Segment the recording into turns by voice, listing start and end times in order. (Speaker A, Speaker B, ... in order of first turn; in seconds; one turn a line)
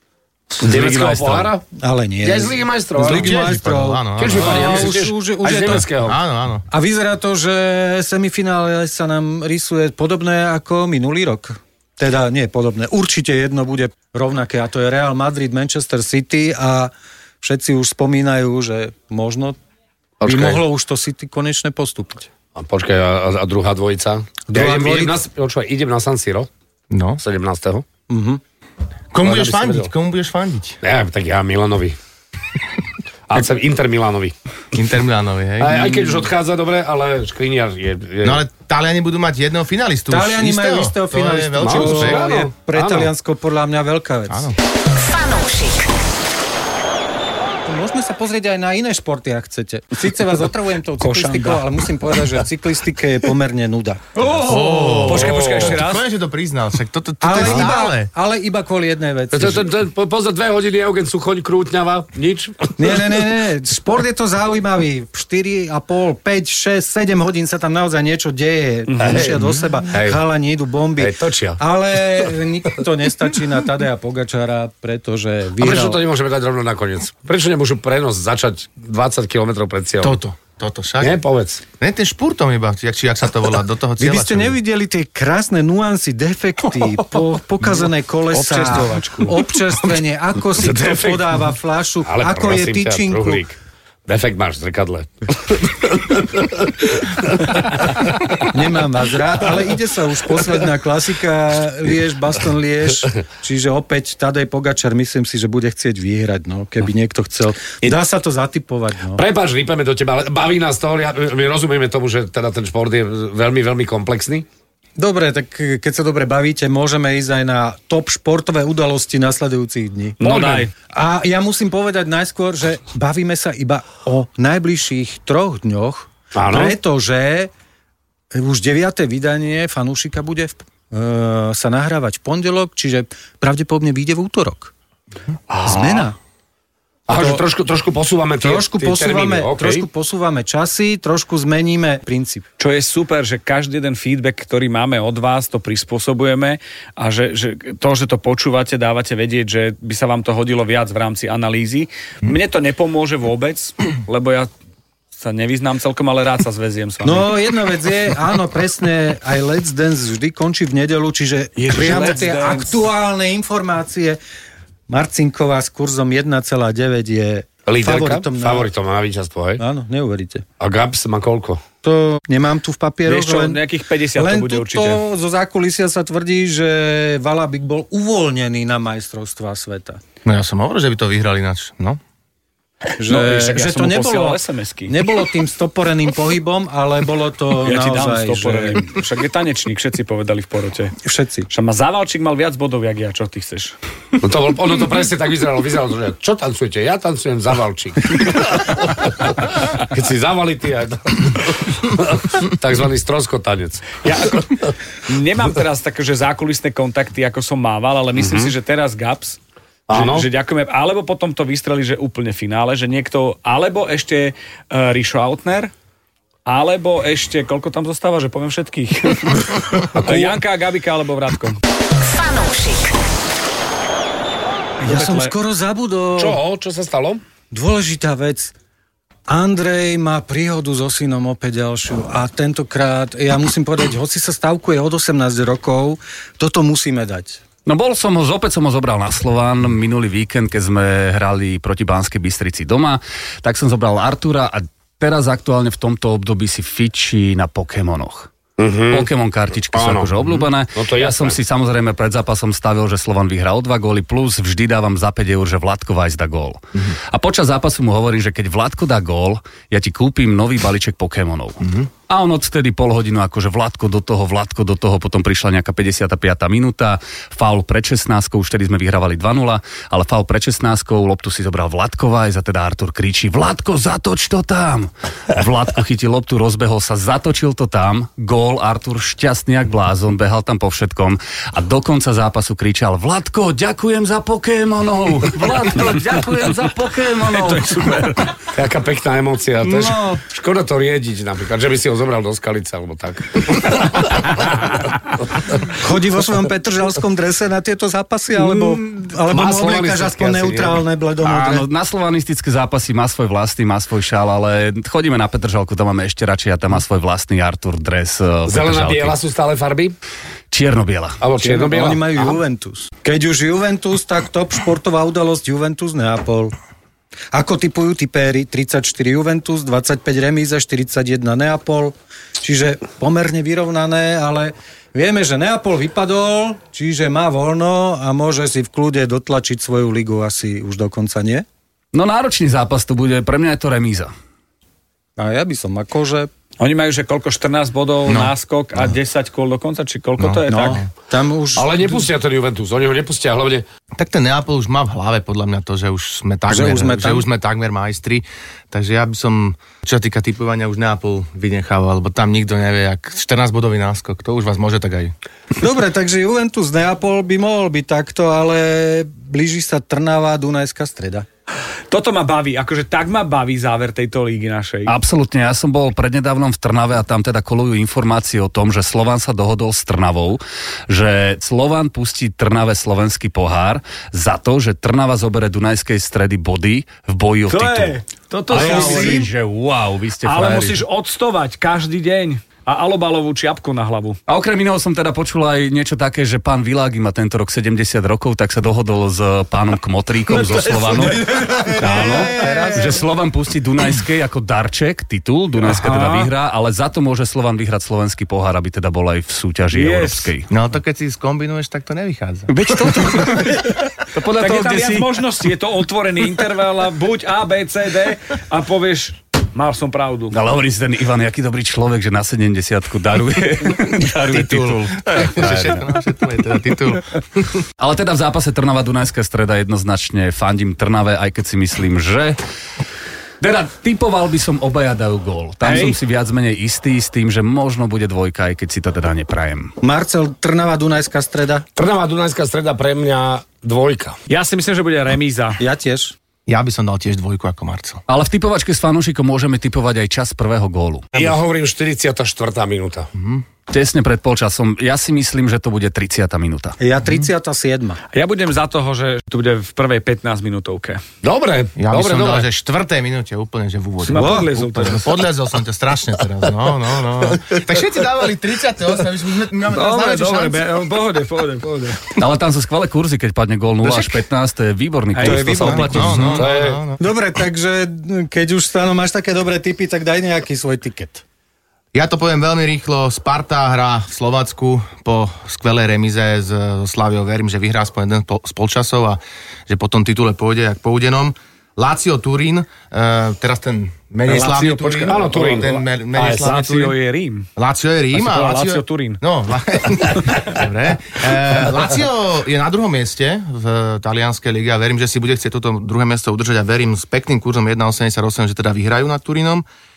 Speaker A: 0.6-1.7
Speaker B: 0.7-1.4
Speaker C: 1.8-5.9
Speaker A: 2.2-3.6
Speaker D: 3.0-5.0
Speaker A: 4.2-6.2
Speaker D: 5.7-6.7
Speaker C: 6.7-19.6
Speaker A: 20.2-20.6
Speaker C: 20.2-22.3
Speaker A: 22.6-26.5
Speaker C: 24.5-25.2
Speaker D: 26.9-27.2
Speaker A: 27.2-27.9
Speaker C: 28.1-28.4
Speaker D: 29.1-30.8
Speaker A: 29.2-29.9
Speaker A: 30.8-32.0
Speaker A: 33.3-34.4
Speaker D: 34.7-36.3
Speaker A: 35.6-38.4
Speaker D: 38.2-42.4
Speaker C: 40.1-44.5
Speaker A: 41.6-43.1
Speaker D: 44.3-44.6
Speaker E: 44.9-45.9
Speaker C: 47.7-55.1
Speaker B: 51.0-51.7
Speaker B: 54.2-56.0
Speaker D: 54.4-58.1
Speaker A: 55.1-55.8
Speaker C: 57.2-59.7
Speaker A: 59.3-63.2
Speaker C: 62.8-76.0
Speaker A: 68.9-70.2
Speaker A: 71.0-71.6
Speaker A: 75.6-80.2
Speaker D: 80.0-81.2
Speaker A: 81.0-81.6
Speaker D: 81.8-84.6
Speaker C: 84.0-93.4
Speaker B: 87.7-89.4
Speaker A: 90.5-91.5
Speaker A: 92.1-93.5
Speaker A: 94.1-98.4
Speaker C: 98.4-109.2
Speaker A: 109.2-114.5
Speaker C: 115.0-120.2
Speaker A: 120.2-120.7
Speaker B: 120.2-120.7
Speaker C: 120.9-127.5
Speaker A: 126.3-126.8
Speaker C: 128.3-134.7
Speaker A: 135.5-136.1
Speaker C: 135.6-136.2
Speaker A: 137.1-139.9
Speaker C: 137.1-137.4
Speaker C: 138.4-142.4
Speaker B: 142.6-154.5
Speaker B: 155.2-157.4
Speaker C: 157.0-164.2
Speaker B: 161.6-162.8
Speaker C: 164.9-168.7
Speaker A: 167.7-169.6
Speaker C: 169.6-170.4
Speaker A: 170.6-171.6
Speaker C: 171.8-173.6
Speaker B: 173.1-175.0
Speaker C: 174.2-180.0
Speaker D: 180.2-182.0
Speaker C: 183.0-188.9
Speaker B: 183.0-184.9
Speaker B: 187.6-191.0
Speaker C: 191.0-191.5
Speaker B: 191.5-193.8
Speaker A: 194.2-204.7
Speaker B: 204.0-209.4
Speaker A: 208.2-208.5
Speaker A: 209.9-210.3
Speaker B: 209.9-215.7
Speaker B: 216.4-221.6
Speaker A: 219.9-220.4
Speaker E: 222.0-223.0
Speaker B: 224.8-225.3
Speaker C: 224.8-226.4
Speaker A: 226.2-227.2
Speaker C: 227.5-228.5
Speaker C: 229.3-237.4
Speaker F: 237.7-248.3
Speaker A: 248.6-249.1
Speaker F: 248.9-288.3
Speaker A: 249.7-251.4
Speaker B: 287.3-288.2
Speaker A: 288.5-295.7
Speaker C: 289.6-290.2
Speaker C: 295.7-301.7
Speaker A: 298.4-300.8
Speaker F: 301.2-309.2
Speaker A: 308.5-310.0
Speaker F: 310.5-311.2
Speaker A: 311.2-312.4
Speaker C: 311.4-316.5
Speaker C: 317.3-331.4
Speaker F: 331.9-334.1
Speaker C: 335.2-336.3
Speaker B: 336.6-340.8
Speaker D: 338.1-338.3
Speaker D: 340.2-340.9
Speaker C: 340.5-342.0
Speaker A: 341.5-343.7
Speaker D: 344.0-355.1
Speaker C: 346.5-347.2
Speaker C: 355.6-361.3
Speaker B: 361.9-364.9
Speaker F: 364.9-380.8
Speaker B: 377.5-379.3
Speaker C: 378.5-379.3
Speaker B: 380.2-384.2
Speaker D: 380.4-380.7
Speaker F: 384.3-400.5
Speaker B: 390.4-392.7
Speaker C: 391.3-393.0
Speaker B: 395.6-396.3
Speaker B: 399.7-400.3
Speaker D: 400.5-403.4
Speaker F: 402.5-405.2
Speaker B: 404.4-410.4
Speaker F: 410.3-415.8
Speaker D: 415.0-417.6
Speaker F: 417.8-422.4
Speaker F: 423.4-429.7
Speaker B: 425.6-426.0
Speaker C: 429.8-431.6
Speaker A: 431.8-434.2
Speaker B: 434.3-435.6
Speaker C: 435.6-436.1
Speaker D: 436.5-438.0
Speaker F: 438.1-441.1
Speaker A: 441.1-443.1
Speaker D: 443.1-443.5
Speaker F: 443.7-446.8
Speaker C: 446.8-448.0
Speaker B: 448.1-451.0
Speaker A: 451.2-452.5
Speaker D: 451.8-460.7
Speaker B: 454.0-455.1
Speaker C: 454.1-454.5
Speaker B: 459.7-462.1
Speaker F: 462.1-466.4
Speaker B: 465.2-465.9
Speaker C: 465.2-466.4
Speaker D: 465.7-467.0
Speaker A: 466.3-466.8
Speaker C: 467.0-471.2
Speaker D: 471.9-486.9
Speaker A: 484.3-486.4
Speaker B: 484.3-485.1
Speaker B: 486.1-487.5
Speaker D: 487.6-499.6
Speaker B: 488.1-489.2